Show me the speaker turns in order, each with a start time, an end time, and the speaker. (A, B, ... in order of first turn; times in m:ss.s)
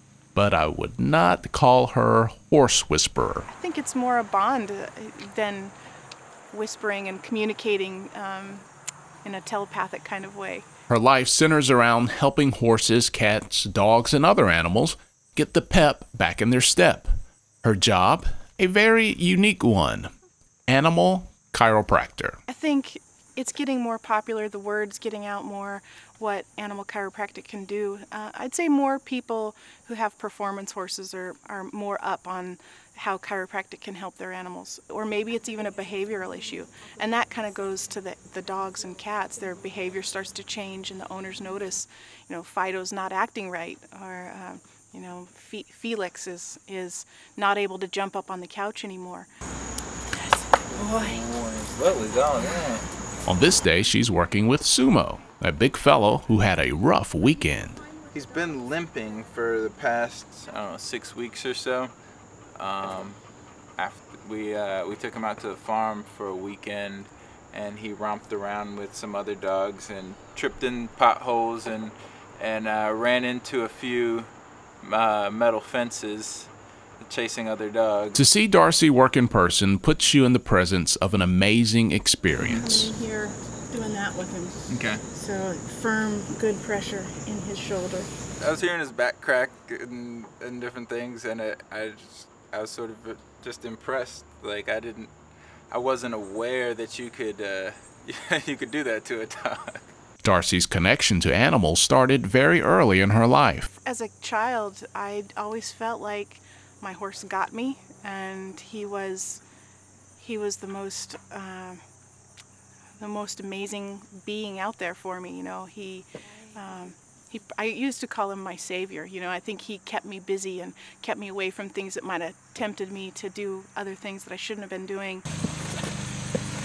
0:00.3-0:03.5 A
0:03.5-0:05.7 B
0:06.5-0:08.6 B
0:09.2-0:10.7 B
0:10.9-0:17.1 A
0:17.6-0:20.1 A
0:20.7-0:22.4 A
0:22.5-0:49.3 B
0:50.1-0:51.2 B
0:50.7-0:52.9 C
0:53.2-0:57.8 A
0:58.1-1:01.9 C
1:02.6-1:03.2 C
1:03.8-1:14.3 C
1:14.8-1:18.2 C
1:18.1-1:22.9 A
1:22.4-1:28.1 B
1:24.7-1:25.0 C
1:28.4-1:35.1 C
1:35.7-1:39.8 C
1:40.2-1:43.7 A
1:43.8-1:49.4 B
1:50.2-1:51.8 B
1:53.0-2:05.2 B